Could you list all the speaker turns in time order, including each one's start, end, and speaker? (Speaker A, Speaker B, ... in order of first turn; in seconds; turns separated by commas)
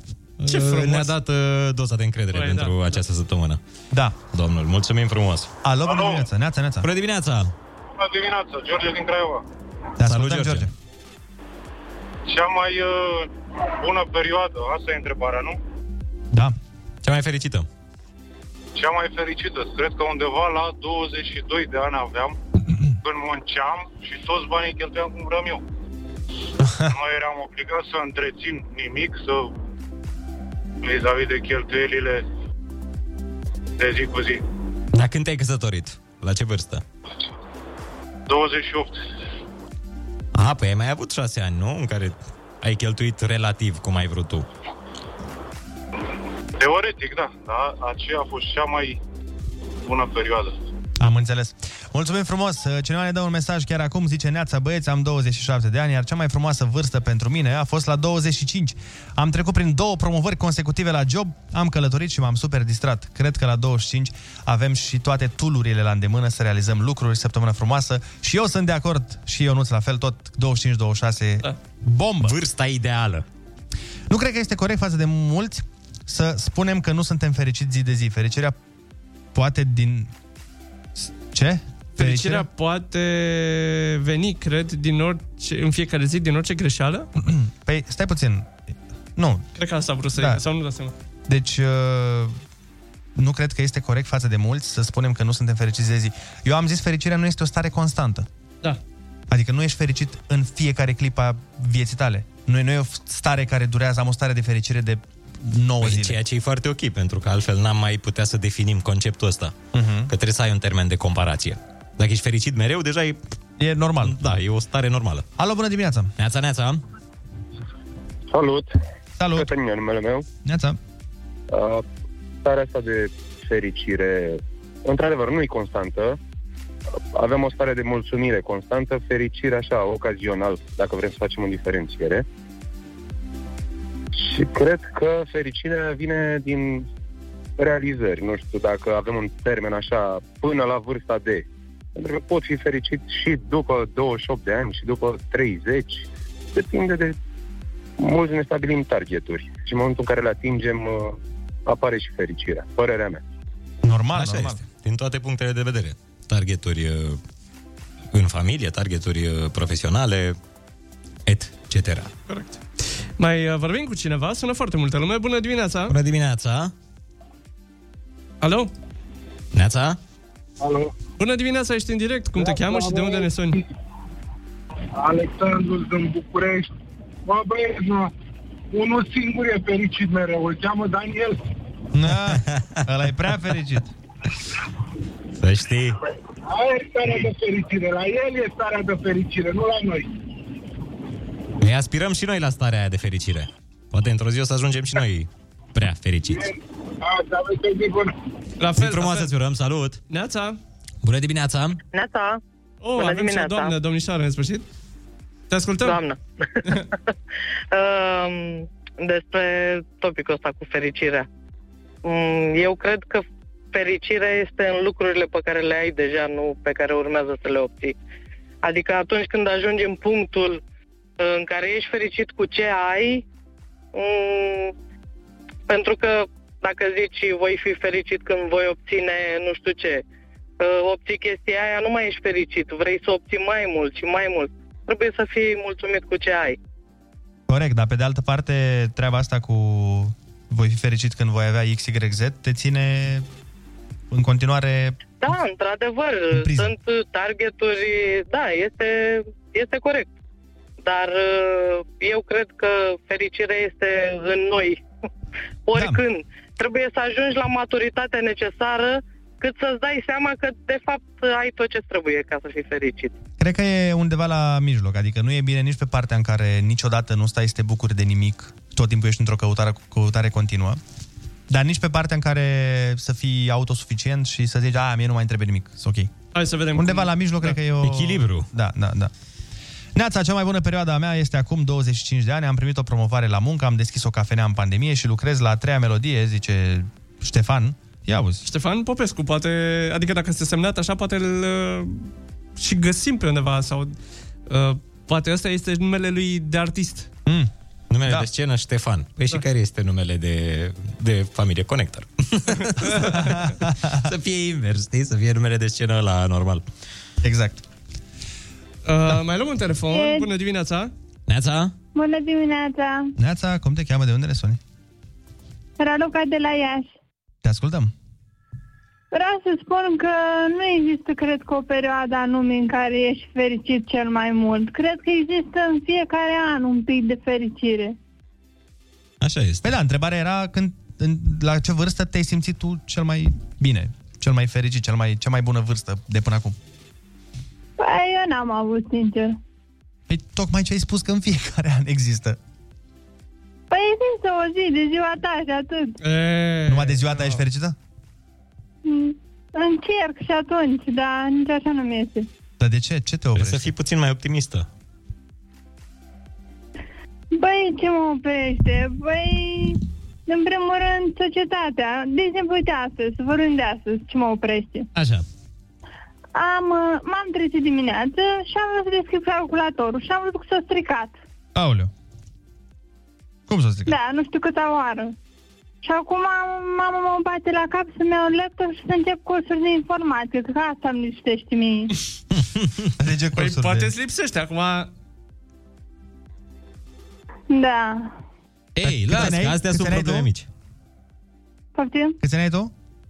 Speaker A: 0.4-3.6, Speaker B: 0.4-1.1, Speaker B: 2.3-3.0, Speaker C: 3.9-4.2, Speaker A: 4.3-5.5, Speaker C: 5.6-6.9, Speaker A: 6.8-7.5, Speaker D: 8.0-9.3, Speaker C: 10.0-10.7, Speaker A: 10.0-10.7, Speaker D: 12.3-12.7, Speaker D: 13.8-15.5, Speaker A: 17.0-17.7, Speaker D: 18.8-22.3, Speaker D: 23.0-25.6, Speaker D: 26.9-29.3, Speaker D: 30.8-32.1, Speaker D: 33.8-34.4, Speaker A: 34.9-36.8, Speaker D: 38.3-38.8, Speaker A: 40.3-44.5, Speaker D: 46.6-48.7, Speaker D: 49.8-50.5, Speaker C: 51.0-72.4, Speaker A: 72.2-73.2, Speaker C: 74.1-78.5, Speaker C: 79.3-80.1, Speaker C: 81.1-82.5, Speaker B: 82.0-87.1, Speaker C: 87.2-88.6, Speaker C: 89.2-89.5, Speaker B: 89.6-90.9, Speaker C: 90.2-90.4, Speaker C: 91.3-92.3, Speaker C: 93.2-98.3, Speaker C: 99.3-106.2, Speaker A: 105.8-109.5, Speaker C: 109.7-110.1, Speaker A: 110.1-113.2, Speaker C: 113.6-114.2, Speaker A: 114.0-115.2, Speaker C: 115.4-116.1, Speaker A: 116.2-116.8, Speaker E: 118.3-118.7, Speaker C: 119.2-119.5, Speaker E: 119.3-120.2, Speaker C: 120.4-120.8, Speaker E: 121.5-121.8, Speaker E: 122.4-126.2, Speaker E: 127.1-132.2, Speaker E: 134.1-136.9, Speaker E: 137.6-141.4, Speaker E: 141.9-147.2, Speaker E: 148.0-153.2, Speaker C: 153.8-154.6, Speaker A: 154.1-157.2, Speaker A: 158.1-160.4, Speaker A: 161.2-162.1, Speaker B: 162.3-162.6, Speaker B: 163.2-165.9, Speaker A: 165.9-166.7, Speaker B: 168.4-168.7, Speaker A: 169.5-170.0, Speaker F: 170.6-170.9, Speaker B: 171.2-173.6, Speaker F: 172.6-173.2, Speaker F: 175.0-176.7, Speaker F: 177.2-178.1, Speaker F: 178.7-181.4, Speaker C: 181.9-183.9, Speaker A: 182.5-182.8, Speaker A: 185.4-186.0, Speaker F: 186.5-190.1, Speaker A: 191.6-196.5, Speaker F: 197.0-198.1, Speaker B: 198.6-199.3, Speaker A: 198.8-200.0, Speaker B: 200.1-200.6, Speaker A: 201.0-201.8, Speaker G: 201.9-202.4, Speaker B: 202.8-204.6, Speaker G: 203.0-203.7, Speaker B: 205.5-206.0, Speaker G: 205.8-206.8, Speaker G: 207.7-211.3, Speaker G: 212.0-217.9, Speaker G: 218.6-220.6, Speaker G: 221.2-223.2, Speaker G: 223.9-224.7, Speaker G: 225.7-230.0, Speaker G: 230.6-236.6, Speaker C: 237.5-243.2, Speaker C: 244.1-245.0, Speaker G: 245.2-250.1, Speaker C: 246.3-246.7, Speaker G: 250.8-254.8, Speaker G: 255.7-263.1, Speaker C: 255.7-256.0, Speaker C: 263.4-270.8, Speaker C: 271.5-276.1, Speaker B: 276.3-277.5, Speaker C: 276.7-279.1, Speaker A: 277.8-278.5, Speaker C: 279.9-288.4, Speaker B: 288.4-293.9, Speaker B: 294.5-297.1, Speaker A: 297.9-306.6, Speaker C: 303.2-304.0, Speaker C: 307.2-307.6, Speaker B: 308.8-310.9, Speaker H: 309.9-310.3, Speaker A: 311.3-311.7, Speaker H: 311.9-313.1, Speaker C: 313.2-314.6, Speaker H: 315.8-316.9, Speaker C: 317.4-317.9, Speaker H: 319.1-327.9, Speaker A: 329.2-329.7, Speaker C: 329.6-336.6, Speaker H: 337.8-339.4, Speaker C: 340.1-342.4, Speaker H: 343.7-346.0, Speaker B: 346.0-347.4, Speaker C: 346.7-347.7, Speaker H: 348.8-352.3, Speaker C: 352.6-353.7, Speaker A: 353.3-354.7, Speaker H: 357.3-364.9, Speaker A: 364.9-365.2, Speaker H: 366.3-371.2, Speaker C: 371.5-371.9, Speaker C: 373.5-373.9, Speaker H: 373.9-375.1, Speaker H: 375.8-381.9, Speaker C: 383.0-383.9, Speaker B: 383.4-384.9, Speaker H: 387.5-388.1, Speaker A: 388.8-390.5, Speaker C: 388.8-390.3, Speaker H: 391.7-392.2, Speaker C: 392.2-392.7